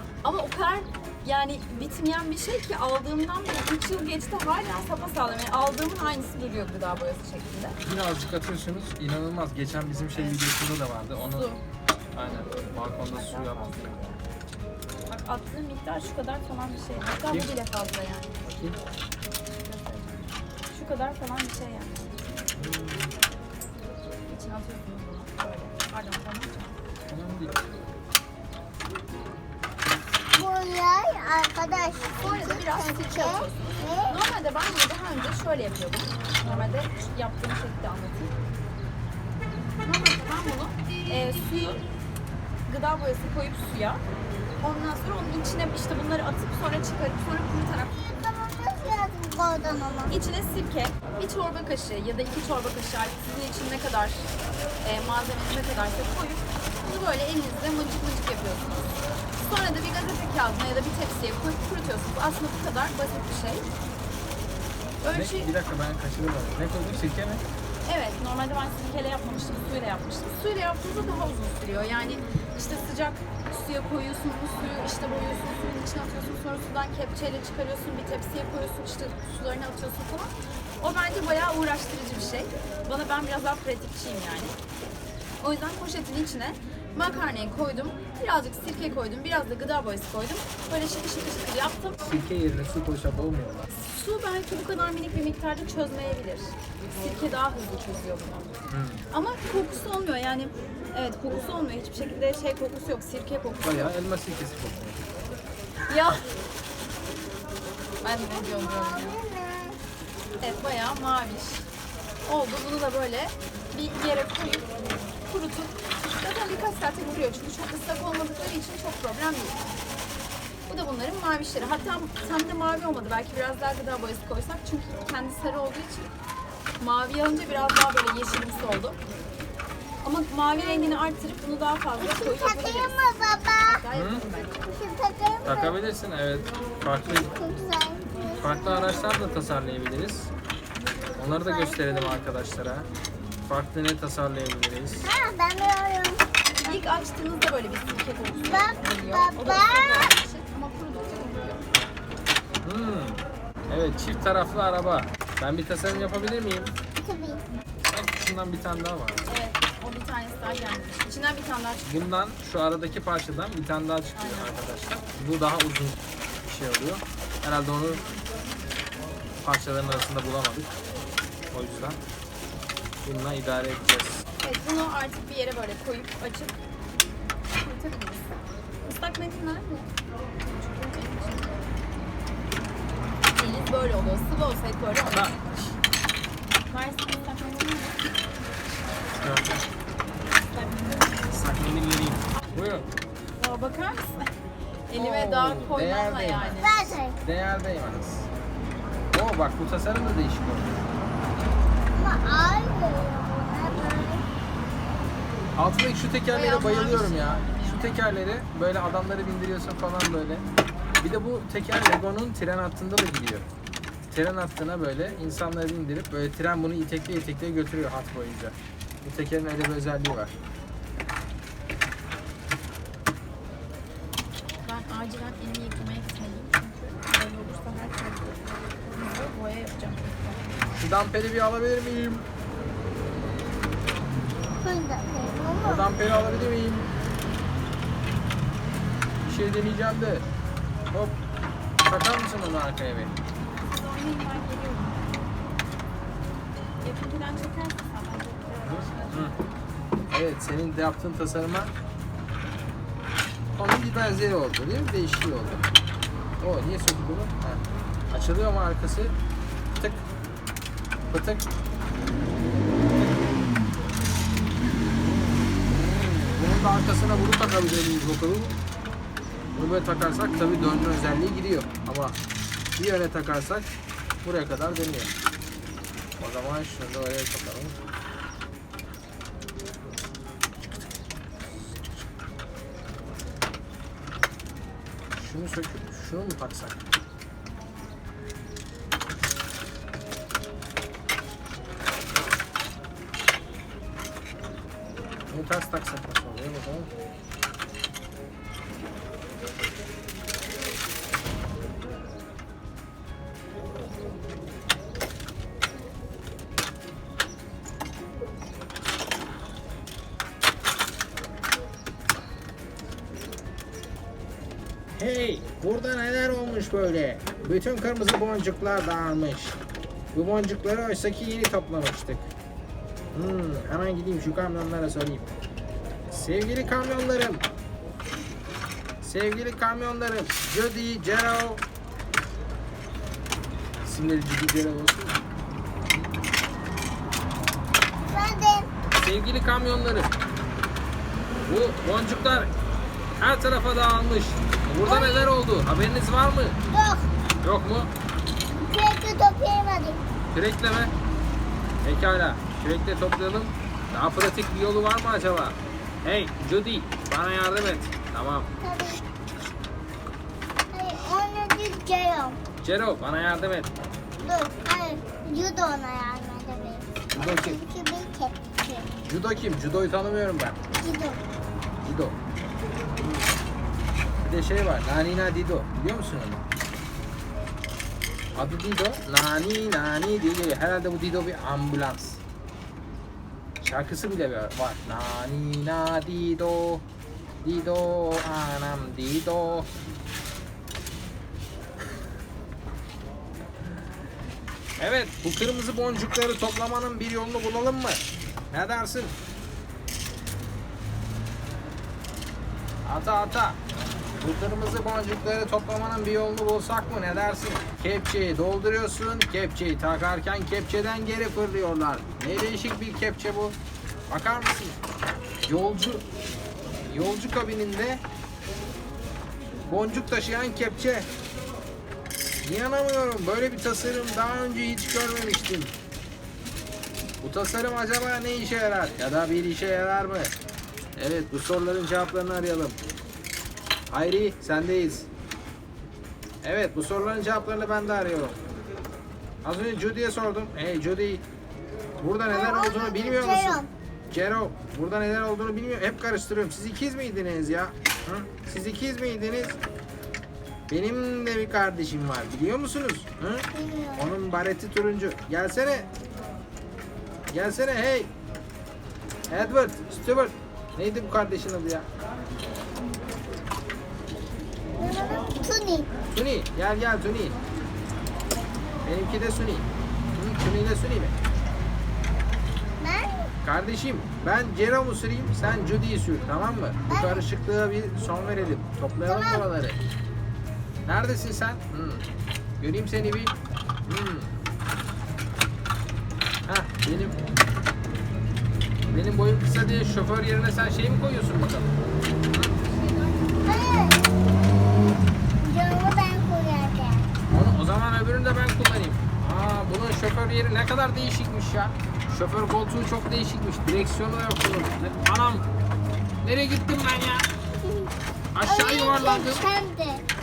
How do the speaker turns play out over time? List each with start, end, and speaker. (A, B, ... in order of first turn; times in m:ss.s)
0:00.2-0:07.8 A
0:07.8-0:11.5 B
0:10.1-0:10.4 A
0:11.2-0:11.6 A
0:12.2-0:13.9 B
0:13.1-0:14.2 A
0:15.1-0:18.4 A
0:17.2-0:17.6 B
0:18.4-0:18.8 B
0:19.6-0:22.2 A
0:22.6-0:23.2 B
0:24.3-0:26.8 A
0:27.1-0:27.6 B
0:30.3-0:34.2 C
0:32.2-0:38.3 A
0:39.8-0:41.8 A
0:42.7-0:44.0 A
0:44.6-0:47.9 A
0:48.0-0:50.2 C
0:50.1-1:03.7 A
1:05.0-1:05.5 A
1:05.1-1:07.4 B
1:07.8-1:24.6 A
1:25.4-1:32.0 A
1:32.0-1:33.6 B
1:33.7-1:38.5 A
1:38.7-1:39.0 B
1:39.1-1:43.9 A
1:43.6-1:45.0 B
1:45.9-1:46.3 A
1:48.0-1:49.2 A
1:48.4-1:49.8 C
1:50.4-1:51.7 A
1:52.3-1:59.6 A
2:00.7-2:06.1 A
2:06.8-2:09.0 A
2:10.0-2:13.1 A
2:10.5-2:11.0 C
2:12.0-2:13.8 C
2:13.7-2:14.6 A
2:13.9-2:14.2 B
2:14.6-2:15.8 C
2:15.4-2:17.3 B
2:17.2-2:19.0 C
2:18.4-2:20.3 B
2:21.2-2:22.9 B
2:21.3-2:22.2 C
2:23.5-2:25.1 B
2:25.0-2:26.8 C
2:26.6-2:31.7 A
2:28.5-2:30.1 C
2:32.6-2:36.7 B
2:37.0-2:37.4 C
2:37.9-2:39.2 B
2:39.3-2:42.0 A
2:41.8-2:48.0 B
2:44.2-2:44.6 A
2:49.4-2:50.7 B
2:51.5-2:52.0 B
2:53.0-2:54.2 B
2:54.4-2:56.6 A
2:57.5-3:01.5 A
3:03.4-3:05.4 A
3:05.1-3:05.7 B
3:06.7-3:08.0 A
3:09.0-3:09.7 B
3:10.5-3:11.3 A
3:11.3-3:12.9 B
3:13.4-3:14.3 A
3:14.9-3:16.9 A
3:14.9-3:18.3 B
3:16.5-3:17.2 C
3:19.1-3:20.7 B
3:21.9-3:24.2 C
3:25.6-3:30.4 B
3:26.3-3:28.0 A
3:31.0-3:33.5 B
3:34.1-3:40.3 B
3:44.6-3:50.5 A
3:50.7-3:52.2 B
3:54.6-3:55.9 C
3:55.6-3:56.9 B
3:59.2-4:00.2 B
4:00.9-4:01.2 B
4:01.8-4:03.1 B
4:03.5-4:05.5 A
4:06.8-4:09.5 A
4:08.6-4:09.4 B
4:10.1-4:11.7 B
4:13.5-4:15.7 B
4:16.4-4:19.2 B
4:19.8-4:20.0 B
4:21.1-4:21.4 B
4:25.0-4:28.6 B
4:29.6-4:32.2 B
4:32.8-4:33.7 B
4:34.2-4:35.1 B
4:36.2-4:37.8 B
4:45.1-4:46.8 B
4:55.3-4:56.9 B
5:15.0-5:19.6 B
5:20.1-5:22.3 B
5:23.1-5:25.3 B
5:26.1-5:27.5 B
5:29.0-5:31.6 B
5:33.8-5:35.2 B
5:38.1-5:38.7 C
5:38.9-5:40.1 B
5:41.5-5:42.5 B
5:43.2-5:46.6 B
5:44.8-5:45.3 C
5:46.7-5:47.1 C
5:47.4-5:47.9 B
5:48.6-5:50.0 C
5:50.3-5:50.9 B
5:51.8-5:58.5 B
5:58.6-5:59.0 C
6:00.7-6:02.4 C
6:02.6-6:03.7 B
6:04.2-6:08.9 C
6:07.1-6:07.6 B
6:09.1-6:10.6 B
6:10.8-6:11.2 C
6:11.8-6:12.2 B
6:13.0-6:13.4 B
6:14.2-6:16.4 B
6:18.4-6:22.2 B
6:23.6-6:26.8 B
6:27.4-6:29.7 B
6:34.8-6:38.0 B
6:38.5-6:39.1 B
6:42.8-6:43.6 B
6:44.2-6:53.6 B
6:54.1-6:54.8 B
6:55.4-6:56.0 B
6:56.9-6:58.0 B
6:59.7-7:01.1 B
7:02.4-7:05.7 B
7:07.2-7:10.3 B
7:11.0-7:12.8 B
7:13.9-7:15.1 B
7:16.4-7:18.4 B
7:19.4-7:21.2 B
7:22.0-7:29.6 B
7:22.3-7:23.7 C
7:30.7-7:35.9 B
7:33.5-7:34.1 C
7:37.3-7:38.1 B
7:39.3-7:41.9 B
7:44.8-7:45.9 C
7:46.1-7:47.4 B
7:48.8-7:51.2 B
7:52.8-7:53.3 C
7:53.4-7:59.8 B
7:56.9-7:57.3 C
7:59.0-7:59.5 C
8:00.9-8:02.0 B
8:02.6-8:03.3 B
8:03.9-8:04.3 B
8:06.5-8:07.2 B
8:08.9-8:11.8 B
8:13.4-8:14.0 C
8:15.4-8:17.0 C
8:17.3-8:25.5 B
8:26.2-8:27.3 B
8:27.6-8:27.9 C
8:28.4-8:29.4 B
8:28.4-8:30.0 C